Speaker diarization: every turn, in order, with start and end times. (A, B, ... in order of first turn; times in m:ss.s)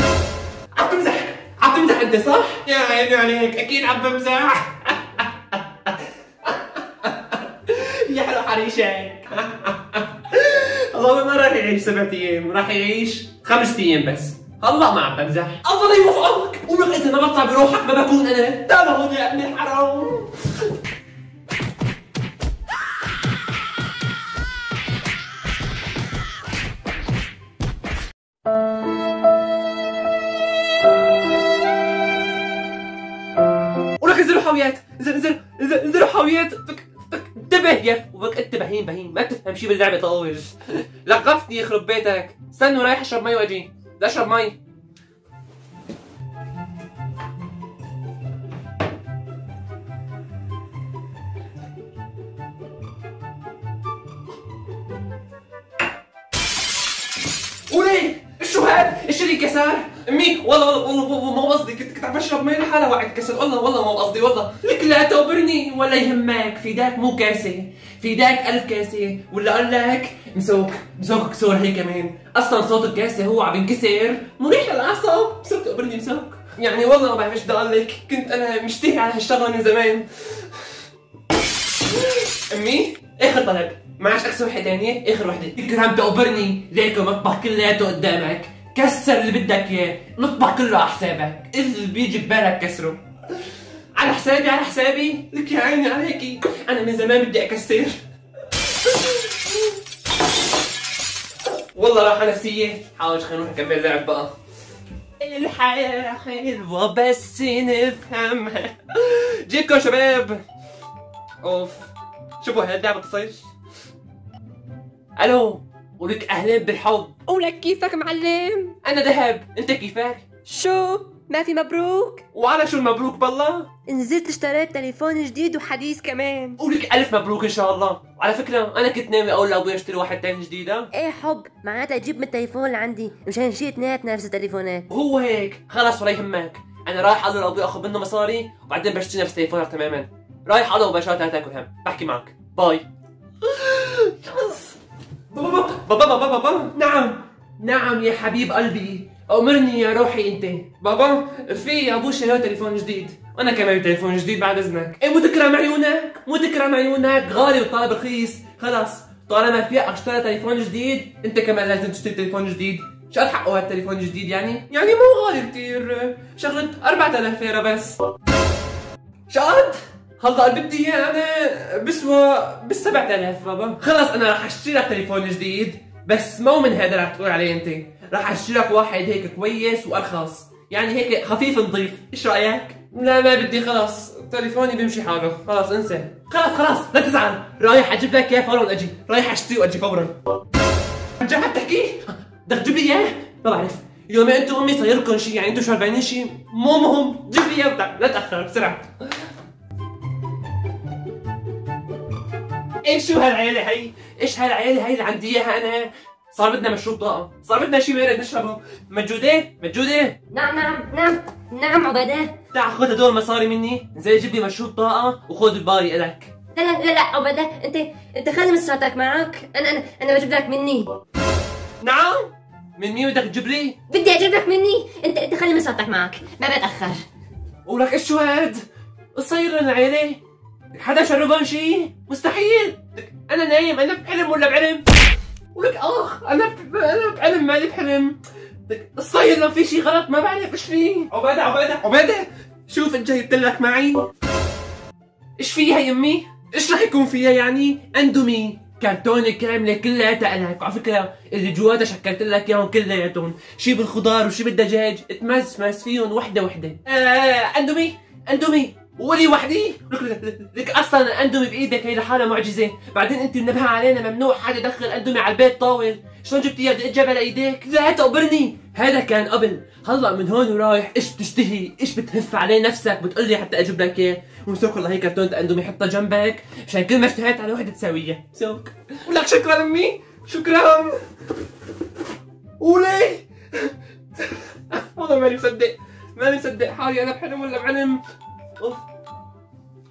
0:00.8-0:20.7 A
0:34.0-0:44.6 A
0:57.7-1:20.6 A
1:21.9-1:33.0 A
1:34.0-1:38.0 A
1:38.6-1:39.7 A
1:41.7-1:44.3 A
1:45.2-1:50.4 A
1:51.4-1:53.5 A
1:55.2-1:57.2 A
1:57.3-1:58.8 B
1:58.8-2:00.3 A
2:00.5-2:02.2 B
2:02.3-2:03.7 A
2:03.9-2:06.6 B
2:06.6-2:10.9 A
2:10.9-2:14.9 B
2:14.9-2:22.9 A
2:23.4-2:24.8 A
2:25.3-2:48.0 A
2:49.3-3:10.2 A
3:11.2-3:18.9 A
3:22.8-3:30.2 A
3:30.3-3:32.3 B
3:32.5-3:36.3 A
3:36.6-3:40.9 B
3:41.8-3:43.8 A
3:43.9-3:47.0 B
3:47.7-3:50.2 A
3:50.7-3:54.8 A
3:55.5-4:04.1 A
4:05.4-4:41.0 A
4:42.6-4:48.0 A